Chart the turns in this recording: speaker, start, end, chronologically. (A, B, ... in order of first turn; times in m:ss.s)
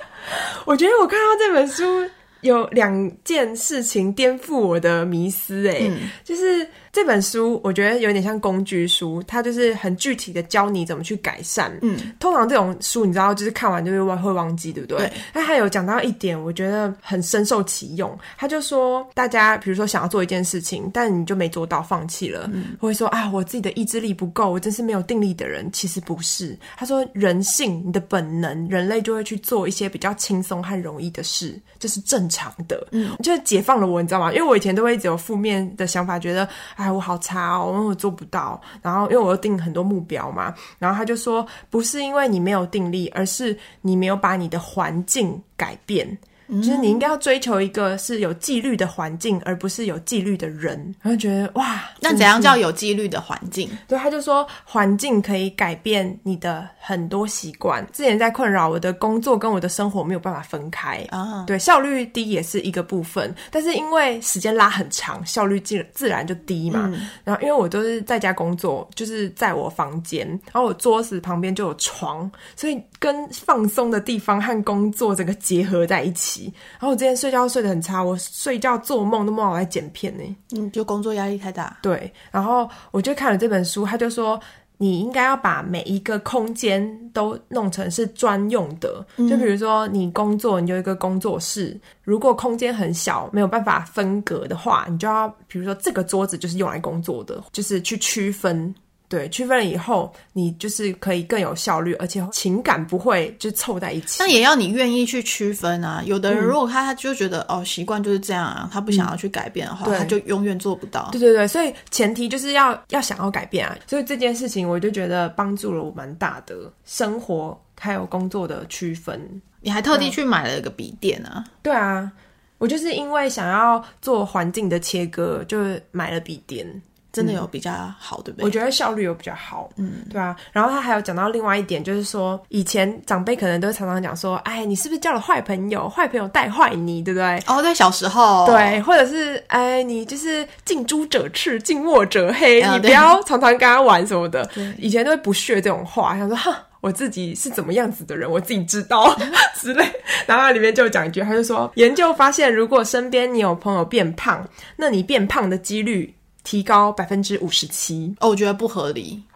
0:00.3-0:52.6 A
0:05.8-0:06.1 B
0:11.8-0:12.1 B
0:15.0-0:15.2 B
0:22.5-0:22.8 B
0:32.9-0:33.2 B
0:46.5-0:47.0 B
0:52.0-0:53.8 B
0:53.9-1:20.4 A
1:01.1-1:01.5 B
1:06.7-1:07.1 B
1:20.5-1:21.8 B
1:21.8-1:44.4 A
1:29.2-1:29.5 B
1:44.2-1:51.2 B
1:46.3-1:46.6 A
1:49.8-1:50.2 A
1:51.1-2:00.1 A
1:59.6-2:01.5 B
2:01.6-2:07.4 A
2:07.1-2:08.5 B
2:08.4-2:17.4 A
2:09.8-2:10.1 B
2:17.4-2:18.8 B
2:18.4-2:38.2 A
2:22.6-2:23.1 B
2:24.5-2:24.8 B
2:38.2-2:39.2 B